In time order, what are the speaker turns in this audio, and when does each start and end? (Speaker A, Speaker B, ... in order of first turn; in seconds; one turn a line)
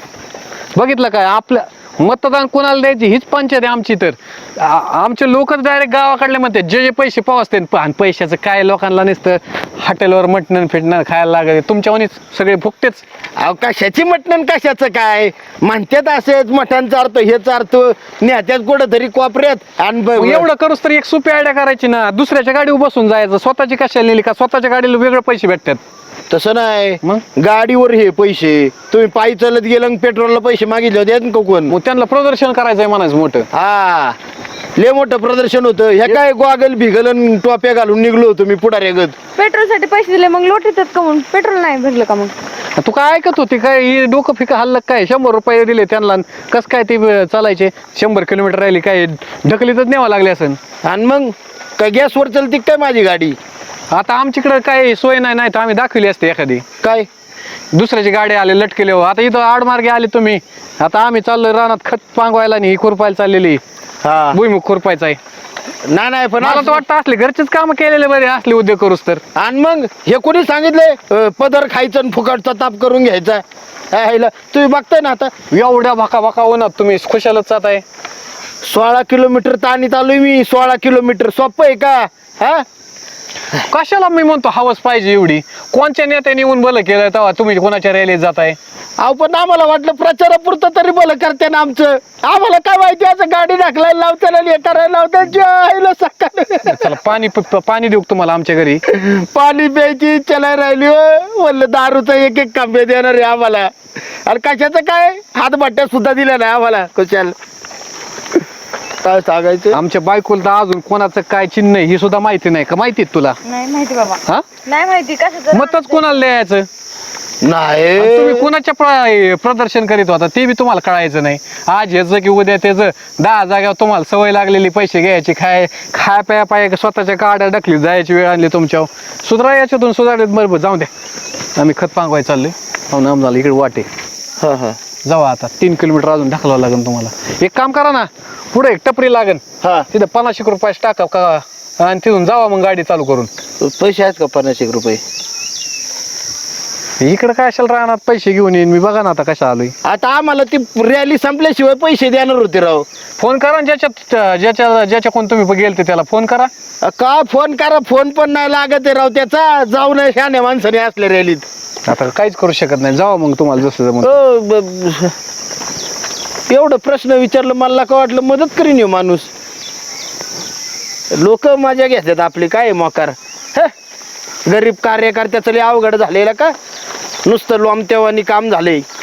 Speaker A: 0.8-13.0
Speaker B: 13.4-20.4
Speaker A: 20.1-25.8
Speaker B: 26.3-31.7
Speaker A: 31.7-33.5
Speaker B: 33.5-34.1
Speaker B: 34.8-39.1
Speaker C: 39.4-42.3
Speaker A: 42.8-50.6
Speaker B: 50.8-53.4
Speaker A: 53.9-56.6
Speaker B: 56.8-57.1
Speaker A: 57.7-63.6
Speaker B: 64.0-64.4
Speaker A: 64.3-65.2
Speaker B: 65.9-66.8
Speaker A: 66.4-69.2
Speaker B: 69.3-75.3
Speaker A: 75.5-77.8
Speaker B: 78.6-82.6
Speaker A: 83.6-88.6
Speaker B: 89.0-96.9
Speaker A: 96.6-98.8
Speaker B: 98.8-103.7
Speaker B: 104.2-107.3
Speaker B: 109.0-109.8
Speaker A: 109.7-113.4
Speaker C: 113.4-116.0
Speaker A: 115.5-116.7
Speaker B: 117.4-118.5
Speaker A: 118.0-130.9
Speaker A: 131.6-133.9
Speaker B: 134.4-134.8
Speaker A: 135.0-143.3
Speaker B: 139.6-139.9
Speaker B: 143.6-145.0
Speaker A: 147.0-149.7
Speaker B: 149.8-152.8
Speaker A: 153.2-156.5
Speaker B: 156.8-161.4
Speaker A: 161.9-164.2
Speaker B: 164.0-165.1
Speaker B: 166.5-169.3
Speaker B: 171.1-173.7
Speaker B: 174.4-176.5
Speaker B: 177.2-178.8